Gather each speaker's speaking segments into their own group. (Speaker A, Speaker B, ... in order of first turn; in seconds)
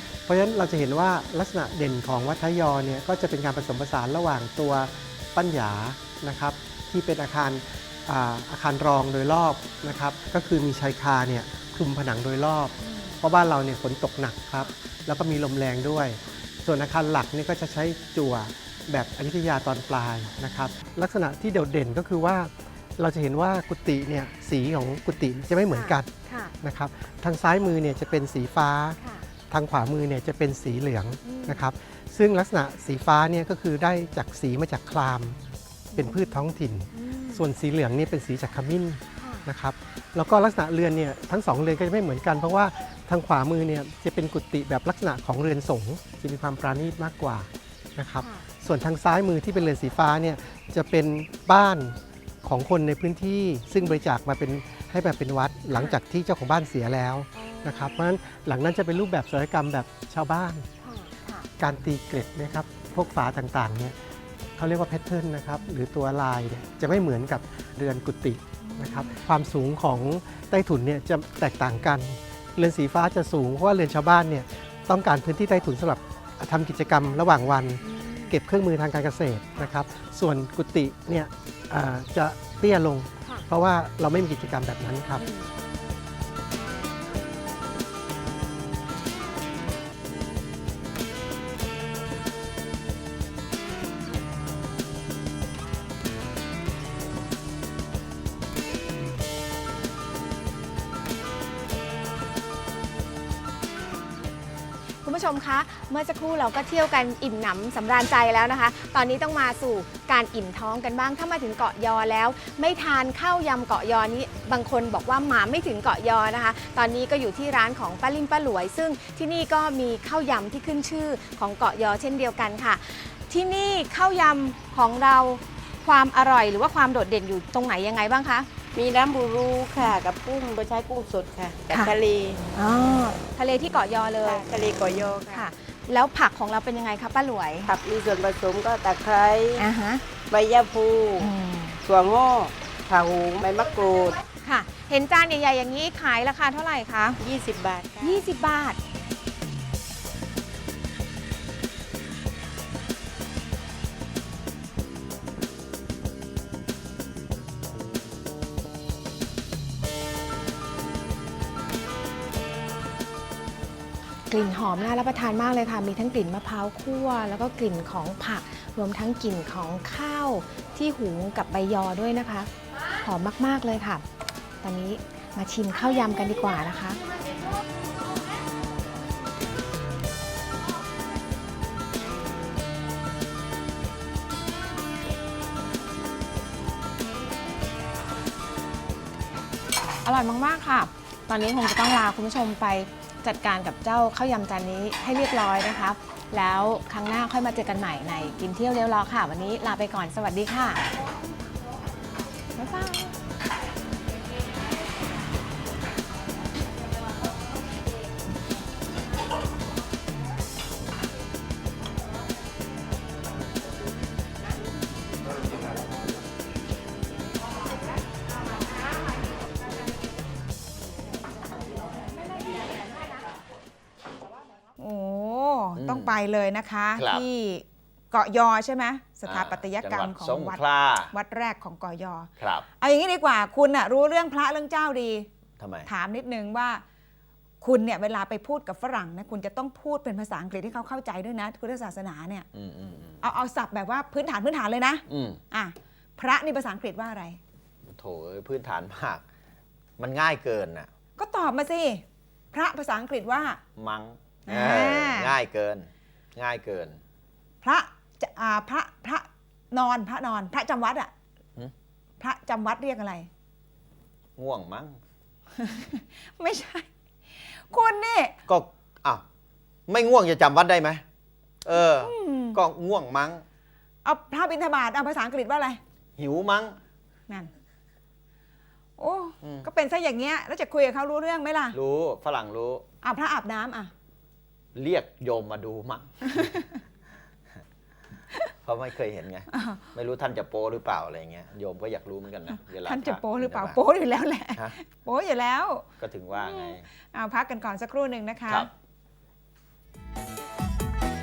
Speaker A: 0.3-26.1, 26.6-35.4, 35.9-60.7, 61.6-64.0, 64.6-85.3
Speaker B: 12.8-13.2, 20.4-20.7, 25.7-26.5, 29.0-29.2, 31.2-31.7, 35.9-36.4, 36.9-37.4, 39.2-39.5, 48.2-48.4, 55.7-56.0, 57.3-58.1, 60.8-61.5, 68.6-69.2, 77.8-78.3, 85.2-85.5, 105.0-128.5, 131.7-131.9, 132.5-134.5, 135.3-137.7, 139.6-140.0, 141.2-141.8, 144.4-147.2, 148.0-148.8, 164.3-172.5, 173.0-174.0, 174.6-177.0, 190.0-200.8, 202.6-203.1
Speaker C: 128.8-132.4, 134.2-135.4, 137.7-139.7, 140.3-141.2, 141.8-144.1, 147.2-148.1
Speaker D: 224.8-235.3, 235.8-236.8, 237.6-242.5, 243.2-247.4, 251.2-253.6, 254.5-255.4, 257.6-261.1, 262.2-263.3, 265.6-266.9, 267.7-268.4, 271.7-272.6, 274.0-275.8, 279.0-281.8, 283.0-283.9, 289.5-289.9, 292.5-298.7
Speaker E: 225.8-226.2, 227.0-227.2, 229.2-231.1, 232.4-232.7, 235.6-235.9, 242.5-243.2, 245.1-245.4, 247.9-249.2, 250.0-250.9, 253.8-257.0, 264.4-265.0, 268.5-269.2, 269.9-271.0, 271.6-273.4, 276.2-276.8, 279.4-279.7, 281.7-282.9, 284.8-286.6, 288.6-293.8, 296.0-296.9